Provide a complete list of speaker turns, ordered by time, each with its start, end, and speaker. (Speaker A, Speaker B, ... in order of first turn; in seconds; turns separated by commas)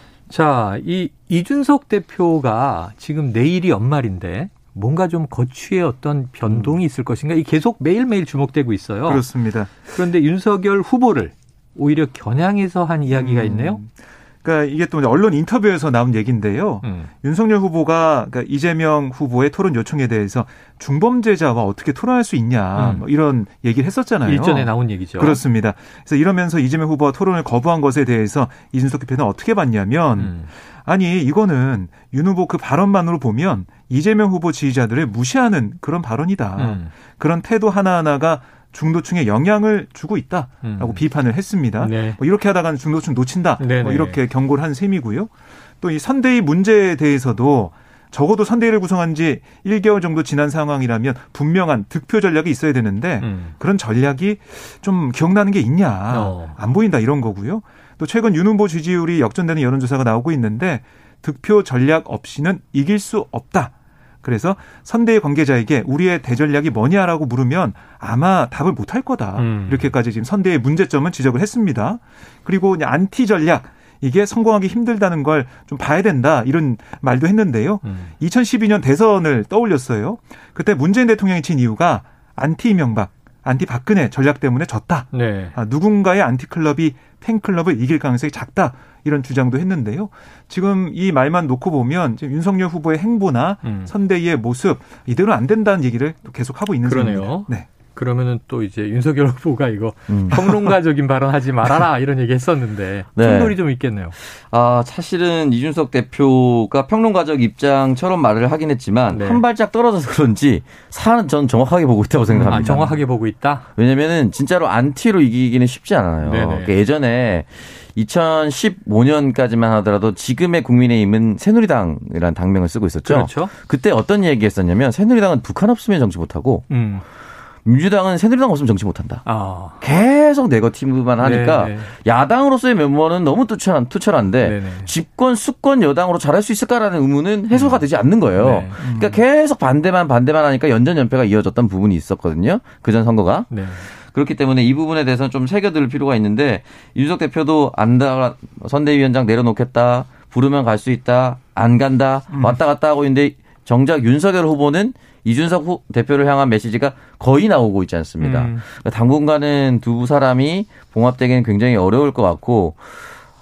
Speaker A: 0.3-9.2, Speaker B: 6.5-6.7, Speaker B: 9.1-9.9, Speaker A: 9.8-13.8, Speaker B: 13.1-13.9, Speaker B: 14.4-97.7, Speaker A: 16.8-17.1, Speaker A: 22.8-23.0, Speaker A: 24.3-25.4, Speaker A: 30.2-30.5, Speaker A: 36.6-36.9, Speaker A: 40.6-41.0, Speaker A: 41.8-42.2, Speaker A: 43.6-44.2, Speaker A: 53.2-53.5, Speaker A: 56.1-56.6, Speaker A: 69.4-69.9, Speaker A: 77.8-78.1, Speaker A: 85.1-85.5, Speaker A: 93.6-93.9, Speaker A: 96.8-104.2, Speaker C: 100.1-100.4, Speaker C: 103.2-103.6, Speaker C: 104.3-113.0, Speaker A: 109.1-109.4, Speaker B: 112.3-112.7, Speaker A: 112.4-113.7, Speaker C: 113.8-126.7, Speaker A: 116.2-116.7, Speaker A: 123.0-123.5, Speaker A: 126.7-127.0, Speaker C: 127.7-129.2, Speaker A: 129.2-129.8, Speaker C: 129.8-162.9, Speaker A: 131.2-131.9, Speaker A: 134.4-134.9, Speaker A: 137.5-137.8, Speaker A: 138.4-138.8, Speaker B: 138.8-139.2, Speaker A: 143.5-143.8, Speaker B: 152.3-152.6, Speaker A: 158.2-158.6